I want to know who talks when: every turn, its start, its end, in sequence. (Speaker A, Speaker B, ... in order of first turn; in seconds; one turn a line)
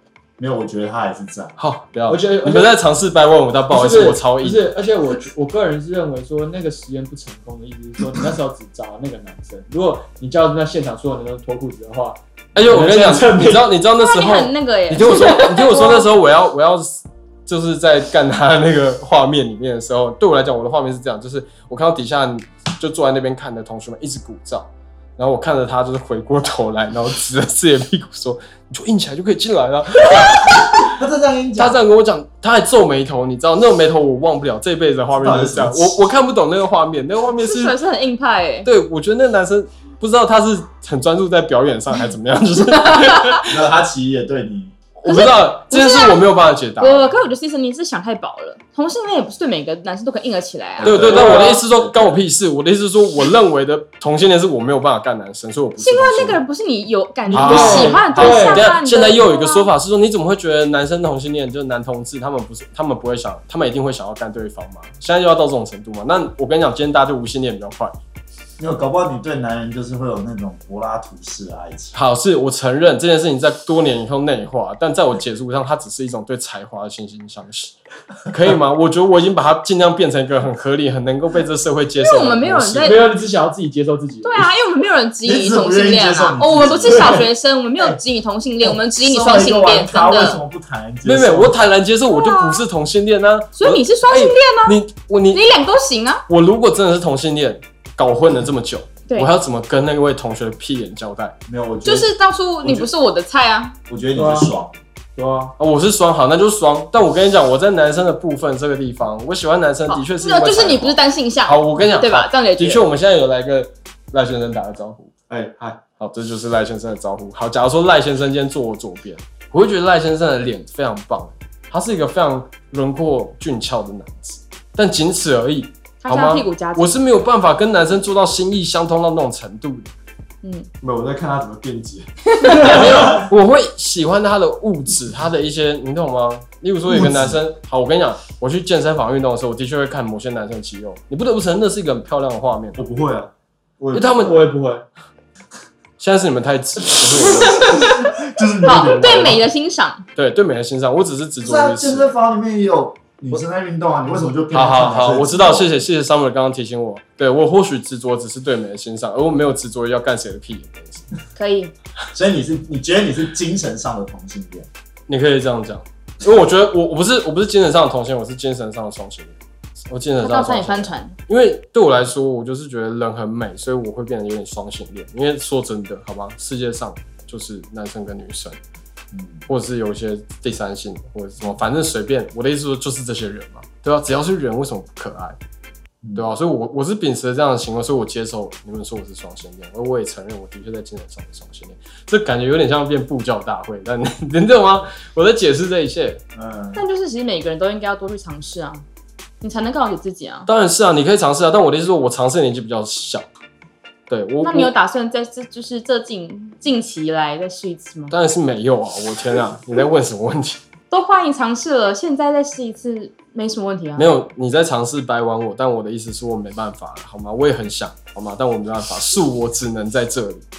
Speaker A: 0.4-1.6
Speaker B: 1.6-4.7
Speaker C: 2.1-2.7
Speaker C: 3.7-13.7
Speaker B: 12.6-30.9
Speaker D: 14.0-16.1
Speaker A: 30.9-31.8
Speaker B: 31.6-37.8
Speaker A: 35.1-36.1
Speaker D: 37.4-38.7
Speaker B: 38.6-43.6
Speaker A: 43.4-44.7
Speaker B: 45.0-47.2
Speaker D: 45.1-46.2
Speaker D: 46.8-51.0
Speaker A: 50.8-52.2
Speaker B: 50.8-56.4
Speaker C: 51.1-51.5
Speaker D: 55.8-59.7
Speaker B: 57.3-68.0
Speaker C: 57.3-58.6
Speaker A: 68.6-72.0
Speaker B: 71.9-77.8
Speaker B: 78.3-83.1
Speaker D: 82.0-83.1
Speaker C: 82.8-84.5
Speaker D: 84.2-90.4
Speaker A: 85.2-87.3
Speaker C: 86.7-87.2
Speaker A: 89.0-91.6
Speaker B: 91.0-95.4
Speaker D: 92.1-92.7
Speaker D: 93.6-94.8
Speaker D: 95.3-96.2
Speaker B: 96.3-101.4
Speaker A: 101.5-102.1
Speaker D: 101.8-103.8
Speaker A: 102.6-102.9
Speaker A: 103.9-104.8
Speaker C: 104.2-104.5
Speaker C: 105.2-105.5
Speaker B: 105.6-115.1
Speaker D: 109.9-112.9
Speaker A: 115.3-115.8
Speaker B: 116.0-129.9
Speaker D: 126.0-127.0
Speaker D: 130.4-130.7
Speaker C: 131.4-132.0
Speaker D: 132.4-132.8
Speaker B: 132.5-142.8
Speaker C: 132.8-133.2
Speaker A: 136.9-137.4
Speaker A: 142.8-143.3
Speaker A: 143.8-144.4
Speaker B: 143.9-144.5
Speaker C: 144.2-144.8
Speaker B: 146.0-147.7
Speaker D: 147.2-148.0
Speaker A: 147.5-149.4
Speaker D: 148.6-150.0
Speaker B: 150.2-152.1
Speaker A: 151.4-155.9
Speaker B: 154.5-161.1
Speaker D: 161.4-161.7
Speaker A: 162.1-164.7
Speaker B: 165.1-178.6
Speaker D: 170.2-171.2
Speaker A: 179.1-179.5
Speaker B: 179.5-185.4
Speaker A: 186.0-186.3
Speaker B: 186.2-196.2
Speaker A: 196.3-196.8
Speaker D: 196.8-198.8
Speaker D: 199.4-200.5
Speaker B: 200.5-203.3
Speaker B: 204.1-204.7
Speaker D: 204.4-208.1
Speaker B: 208.1-210.6
Speaker D: 210.9-214.1
Speaker B: 214.0-220.4